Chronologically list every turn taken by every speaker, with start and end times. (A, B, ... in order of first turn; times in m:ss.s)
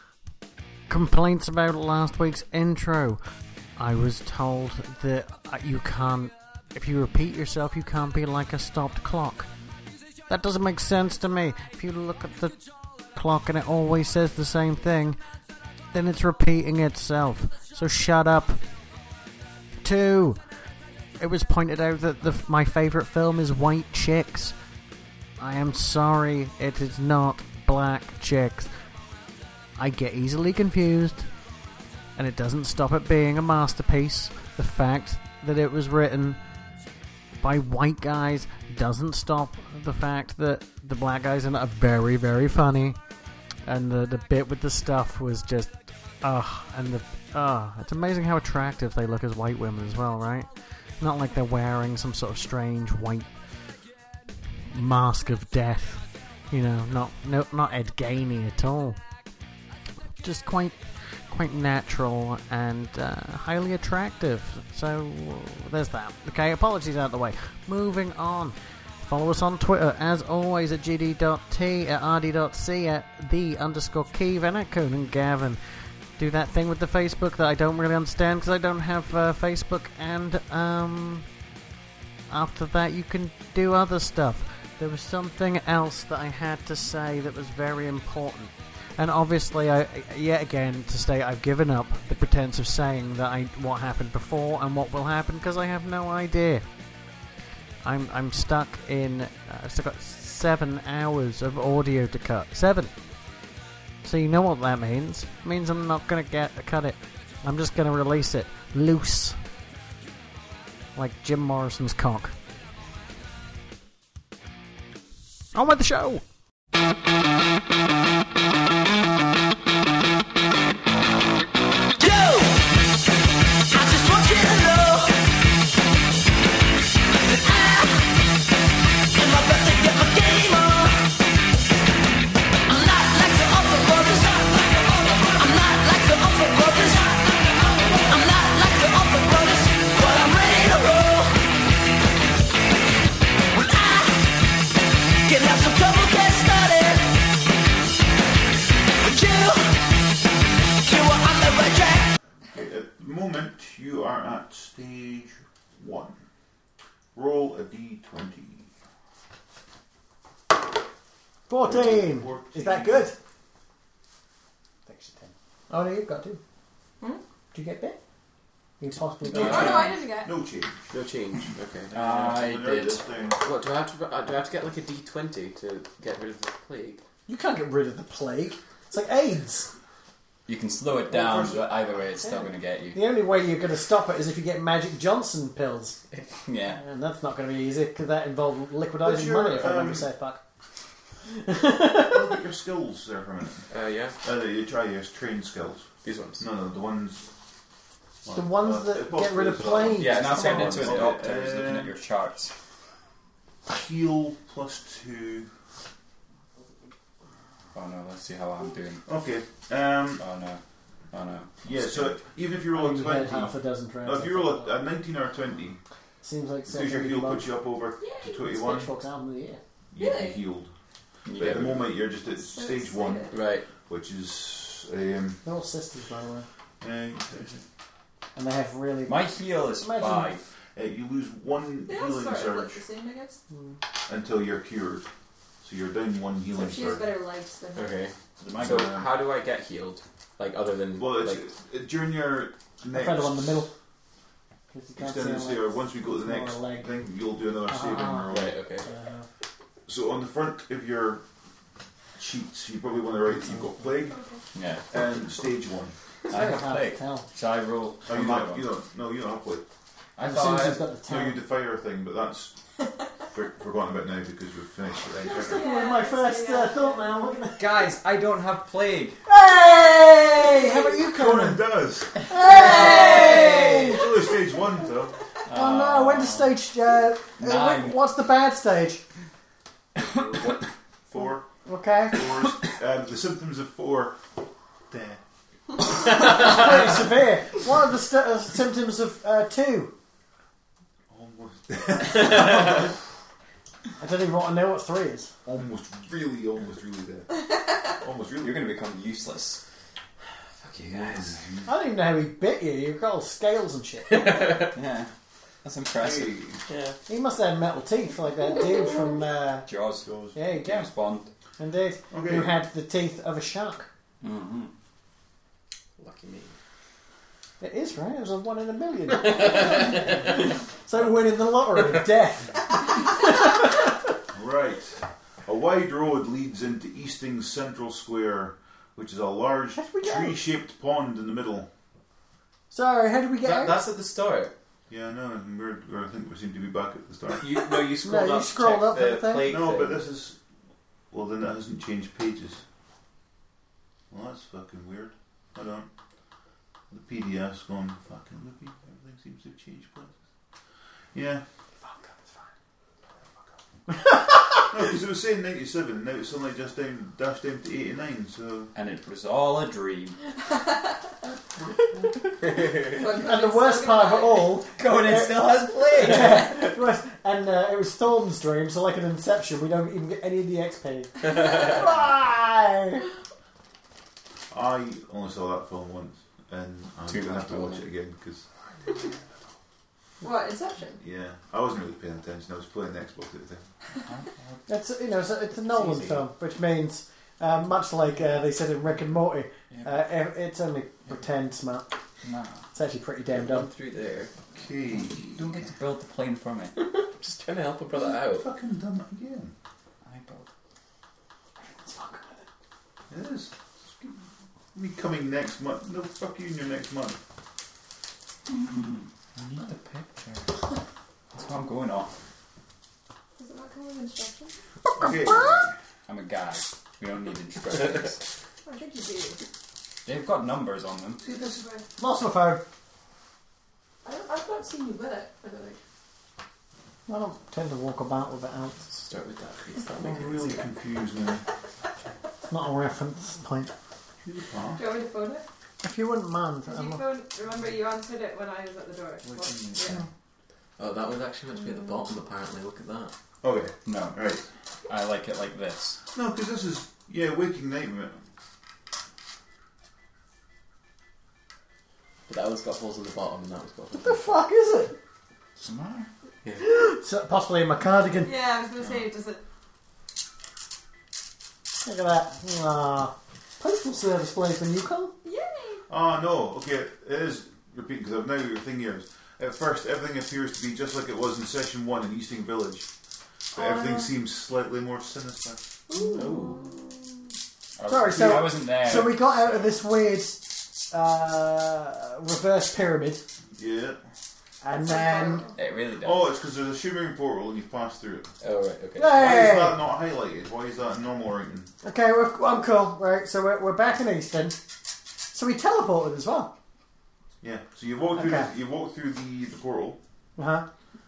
0:00.9-0:03.2 A
0:03.8-0:09.5 A
0:10.3-0:12.6 A
0:13.1-0:15.2 A
0:15.9-0:18.6 A
0:19.8-0:20.4 A
0:21.2-0:24.6 A
0:25.4-0:28.7 A
0:29.8-0:31.3 A
0:32.2-0:36.4 A
0:37.4-0:43.0 A
0:43.7-0:53.3 A
0:54.6-0:59.0 A
1:00.2-1:15.6 A
1:16.2-1:21.3 A
1:22.3-1:36.6 A
1:37.8-1:42.9 A
1:44.0-1:49.4 A
1:51.0-1:52.4 A
1:55.5-1:56.2 A
2:02.0-2:02.7 B
2:03.7-2:05.2 B
2:07.2-2:08.1 B
2:09.2-2:11.2 B
2:12.7-2:21.4 B
2:23.5-2:24.3 B
2:25.2-2:27.1 B
2:29.0-2:29.8 B
2:30.8-2:32.1 B
2:32.5-2:36.2 C
2:37.2-2:38.7 C
2:41.5-2:43.2 A
2:41.7-2:43.1 C
2:44.9-2:46.4 A
2:47.5-2:48.0 A
2:48.8-2:49.9 A
2:49.3-2:50.0 D
2:49.4-2:50.4 E
2:49.4-2:50.8 C
2:50.9-2:51.9 F
2:51.9-2:53.4 C
2:51.9-2:53.0 D
2:53.4-2:57.0 F
2:57.3-2:59.7 A
3:00.5-3:03.0 D
3:01.1-3:01.8 C
3:02.9-3:06.0 A
3:06.5-3:06.8 D
3:06.8-3:10.4 A
3:09.0-3:10.1 C
3:11.3-3:12.2 A
3:12.0-3:13.7 C
3:13.7-3:14.2 F
3:14.2-3:17.3 C
3:16.0-3:16.4 F
3:18.2-3:21.9 C
3:18.3-3:20.8 A
3:19.9-3:22.5 D
3:20.3-3:21.2 F
3:23.7-3:25.5 C
3:27.7-3:29.0 D
3:29.1-3:30.2 C
3:30.2-3:32.2 D
3:31.6-3:35.8 C
3:32.7-3:34.8 A
3:36.2-3:37.5 A
3:36.7-3:38.9 C
3:38.0-3:38.4 E
3:38.5-3:39.6 A
3:39.9-3:40.7 C
3:40.0-3:40.4 E
3:41.3-3:41.8 D
3:41.4-3:43.3 C
3:41.4-3:41.7 F
3:42.4-3:43.4 E
3:43.3-3:43.7 F
3:43.9-3:45.4 C
3:45.4-3:46.5 A
3:46.8-3:47.6 C
3:48.4-3:50.3 A
3:49.1-3:50.5 D
3:50.8-3:52.8 C
3:51.8-3:53.4 E
3:53.5-3:53.8 A
3:54.1-3:55.1 C
3:55.6-3:57.1 C
3:56.5-3:58.0 E
3:57.8-4:01.4 F
3:58.4-3:59.1 C
3:58.4-3:59.0 D
4:01.0-4:03.7 C
4:02.9-4:03.7 A
4:04.7-4:07.0 A
4:05.0-4:08.6 C
4:07.7-4:09.3 A
4:08.3-4:08.9 F
4:09.9-4:11.2 C
4:12.2-4:14.2 C
4:13.3-4:13.7 A
4:14.1-4:14.4 E
4:14.6-4:14.9 D
4:14.9-4:16.0 C
4:16.3-4:18.7 D
4:16.3-4:17.3 A
4:18.1-4:19.7 C
4:20.2-4:20.8 D
4:20.2-4:21.4 A
4:21.1-4:22.6 C
4:23.3-4:25.6 C
4:25.2-4:27.2 E
4:25.3-4:27.9 A
4:27.6-4:29.2 D
4:29.3-4:31.7 A
4:30.5-4:30.9 E
4:31.1-4:35.2 C
4:32.2-4:34.1 A
4:32.5-4:34.1 E
4:32.5-4:34.0 D
4:35.5-4:36.6 D
4:35.5-4:39.0 A
4:37.4-4:38.0 D
4:40.1-4:41.5 C
4:41.6-4:42.4 A
4:42.1-4:44.2 C
4:44.9-4:45.2 C
4:46.1-4:49.9 A
4:51.1-4:52.9 C
4:54.0-4:55.3 A
4:55.5-4:57.4 C
4:57.4-4:57.9 E
4:58.0-4:58.6 C
4:58.4-4:59.6 D
5:00.6-5:01.5 D
5:01.1-5:01.7 C
5:01.7-5:04.3 A
5:04.1-5:04.7 F
5:04.6-5:05.1 D
5:05.6-5:06.4 D
5:06.0-5:06.6 C
5:06.7-5:07.0 F
5:07.1-5:09.7 A
5:09.7-5:11.3 D
5:10.0-5:10.8 C
5:10.4-5:10.9 A
5:11.6-5:13.9 A
5:12.1-5:12.5 C
5:14.2-5:14.7 D
5:16.0-5:16.6 F
5:17.6-5:23.9 A
5:19.7-5:20.0 F
5:24.3-5:31.7 C
5:29.8-5:30.4 A
5:32.7-5:33.8 A
5:33.4-5:34.5 F
5:34.9-5:37.5 C
5:37.4-5:40.0 F
5:38.0-5:39.6 A
5:39.4-5:40.4 C
5:41.1-5:42.6 C
5:44.1-5:45.9 C
5:46.9-5:50.2 C
5:51.1-5:51.4 C
5:54.7-5:58.7 C
5:58.7-6:00.2 D
6:01.6-6:02.1 C
6:02.5-6:02.8 F
6:02.9-6:04.7 E
6:03.0-6:13.1 A
6:04.8-6:06.6 D
6:05.7-6:06.5 F
6:14.5-6:18.5 C
6:17.1-6:17.8 D
6:20.2-6:21.0 E
6:21.0-6:23.7 C
6:24.0-6:24.6 D
6:24.7-6:31.9 A
6:29.7-6:30.0 D
6:32.2-6:32.6 D
6:32.7-6:33.7 A
6:33.3-6:34.3 F
6:34.5-6:35.6 C
6:35.2-6:36.7 D
6:36.8-6:38.5 F
6:38.1-6:39.5 C
6:40.0-6:40.5 D
6:41.6-6:42.4 A
6:43.1-6:47.2 C
6:48.5-6:50.6 D
6:51.3-6:52.1 D
6:53.4-6:54.5 E
6:55.0-6:55.8 C
6:55.0-6:55.6 A
6:56.1-6:58.2 D
6:58.6-6:59.4 E
7:00.0-7:01.2 D
7:01.2-7:01.7 C
7:01.2-7:01.8 E
7:02.0-7:02.6 A
7:04.0-7:05.8 E
7:07.1-7:08.8 A
7:08.9-7:10.6 F
7:10.0-7:11.4 C
7:12.5-7:13.7 A
7:14.3-7:14.8 C
7:14.8-7:15.4 E
7:15.8-7:17.0 A
7:16.7-7:20.0 E
7:19.4-7:19.8 D
7:20.8-7:23.2 F
7:21.6-7:22.0 E
7:23.4-7:24.4 C
7:23.8-7:24.2 D
7:24.9-7:26.0 D
7:26.1-7:28.2 C
7:32.3-7:34.3 F
7:33.9-7:35.0 A
7:35.6-7:36.1 D
7:36.6-7:38.4 A
7:38.2-7:39.4 E
7:41.8-7:45.1 A
7:45.2-7:45.8 E
7:45.9-7:52.9 C
7:53.5-7:55.6 C
7:53.6-7:54.1 E
7:55.9-7:56.9 E
7:56.1-7:56.7 F
7:57.8-7:59.4 D
7:57.9-8:03.2 A
8:03.6-8:04.0 C
8:04.6-8:05.4 A
8:04.8-8:05.6 E
8:05.6-8:06.3 D
8:06.0-8:08.3 C
8:08.4-8:09.2 F
8:09.0-8:09.8 A
8:09.1-8:11.7 C
8:11.8-8:14.6 A
8:15.3-8:16.5 A
8:17.4-8:20.0 C
8:18.2-8:18.5 A
8:20.4-8:20.7 A